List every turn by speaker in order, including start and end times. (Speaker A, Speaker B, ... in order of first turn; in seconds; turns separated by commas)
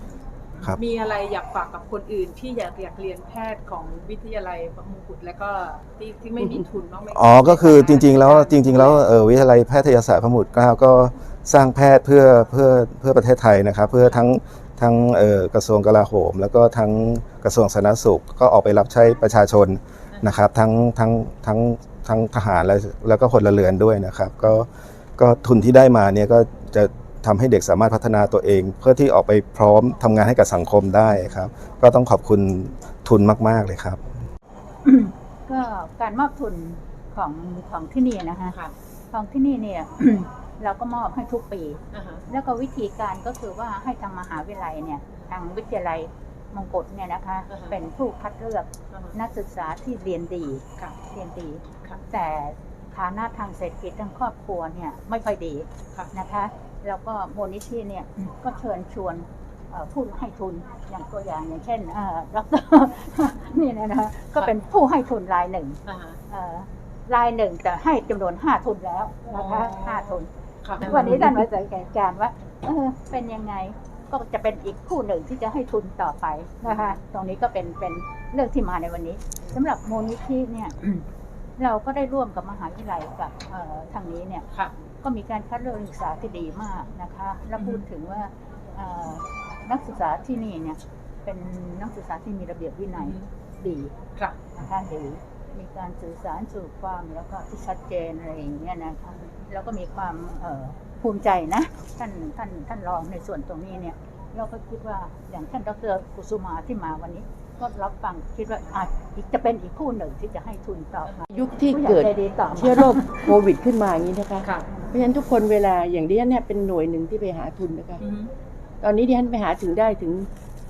Speaker A: 0.6-8.9, Speaker B: 7.1-34.0, Speaker C: 34.8-38.6, Speaker C: 39.1-65.8, Speaker A: 41.9-42.2, Speaker A: 65.9-66.2, Speaker C: 66.3-70.3, Speaker A: 69.4-70.1, Speaker A: 70.6-71.1, Speaker C: 70.8-81.1, Speaker C: 81.6-84.5, Speaker C: 85.0-93.9, Speaker A: 87.6-87.8, Speaker C: 94.5-113.3, Speaker D: 111.3-118.0, Speaker A: 118.0-118.3, Speaker D: 118.8-120.3